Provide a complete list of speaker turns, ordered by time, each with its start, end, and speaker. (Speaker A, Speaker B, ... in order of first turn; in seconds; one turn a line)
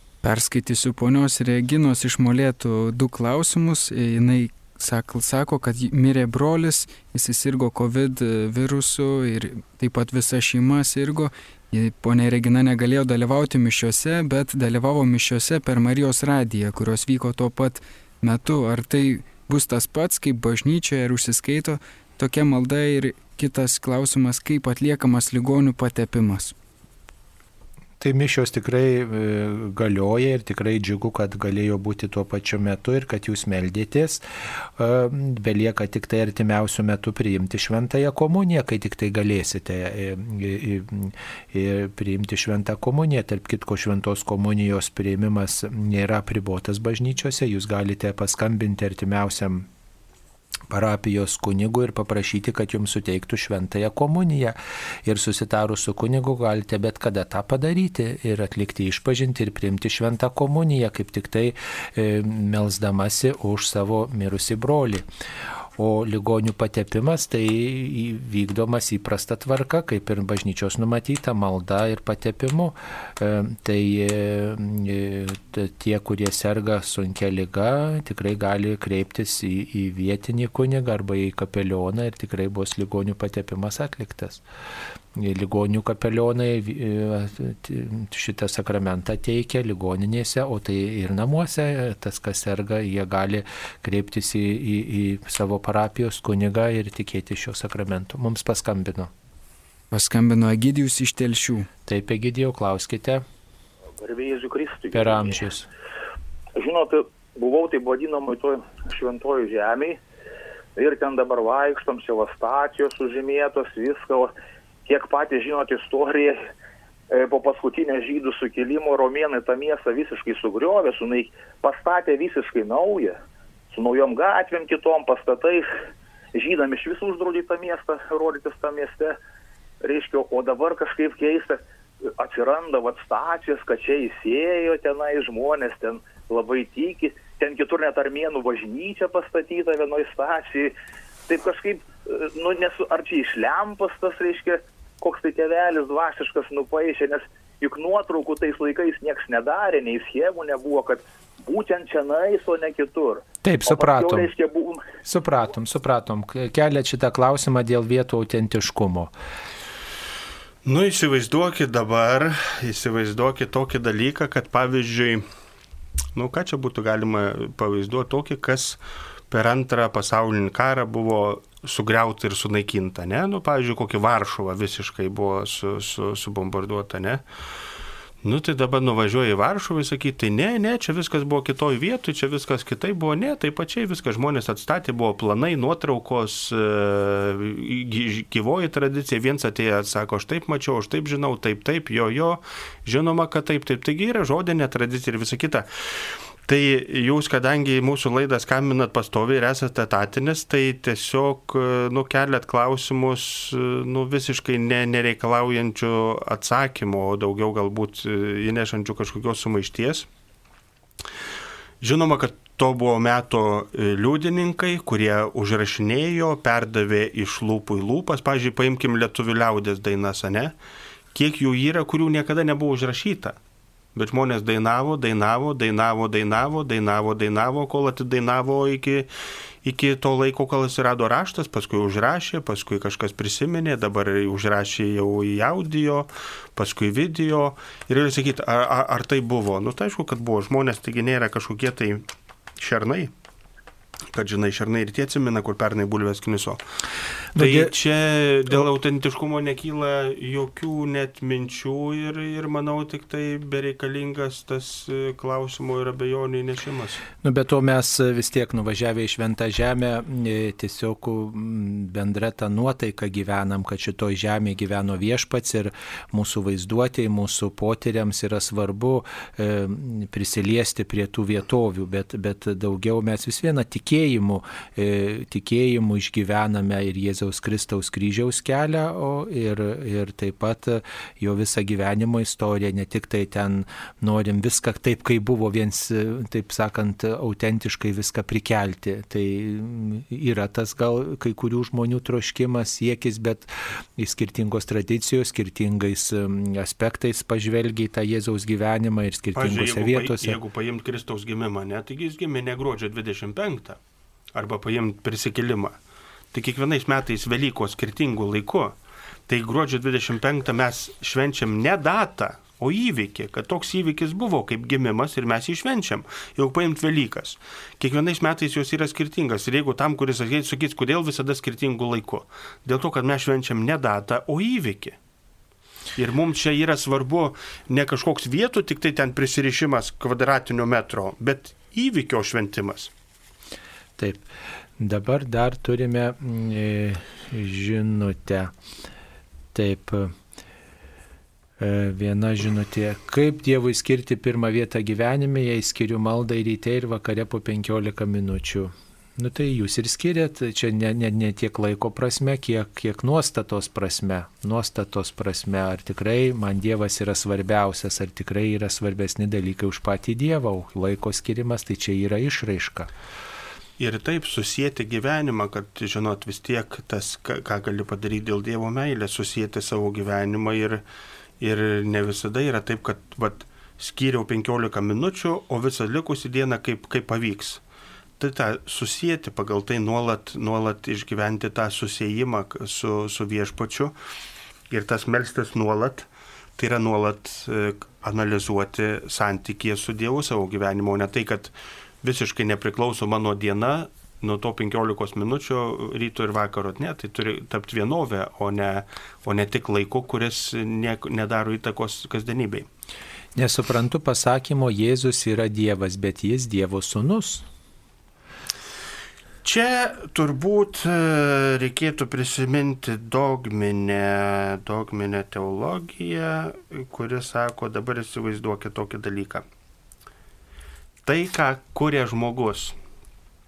Speaker A: 0.2-26.5
Speaker B: 28.0-34.2
Speaker B: 34.8-49.7
Speaker B: 50.7-65.0
Speaker B: 65.8-84.4
Speaker B: 85.2-99.1
Speaker A: 99.9-101.7
Speaker B: 101.9-103.2
Speaker C: 104.0-105.3
Speaker B: 104.9-105.7
Speaker C: 106.5-110.0
Speaker C: 110.8-114.3
Speaker C: 114.8-116.4
Speaker C: 117.1-123.2
Speaker C: 123.7-125.7
Speaker C: 126.3-129.2
Speaker C: 129.8-131.6
Speaker C: 132.2-140.7
Speaker C: 141.3-154.8
Speaker B: 153.4-154.3
Speaker B: 155.1-159.1
Speaker D: 160.6-165.2
Speaker D: 166.1-168.8
Speaker D: 169.3-177.2
Speaker D: 178.2-210.1
Speaker D: 211.8-220.5
Speaker D: 221.1-223.4
Speaker D: 223.9-229.1
Speaker D: 229.6-242.1
Speaker D: 242.6-243.1
Speaker D: 244.1-246.6
Speaker B: 247.3-247.7
Speaker D: 247.4-257.0
Speaker B: 257.2-300.4
Speaker D: 299.3-303.8
Speaker D: 304.3-305.8
Speaker D: 306.3-308.8
Speaker D: 309.3-325.0
Speaker D: 325.9-332.9
Speaker B: 334.0-334.2
Speaker B: 334.8-338.5
Speaker B: 339.5-340.1
Speaker B: 341.6-362.9
Speaker D: 363.8-370.8
Speaker D: 371.4-377.6
Speaker D: 378.2-383.9
Speaker D: 384.7-402.7
Speaker B: 403.4-407.5
Speaker D: 409.4-419.4
Speaker D: 421.0-422.8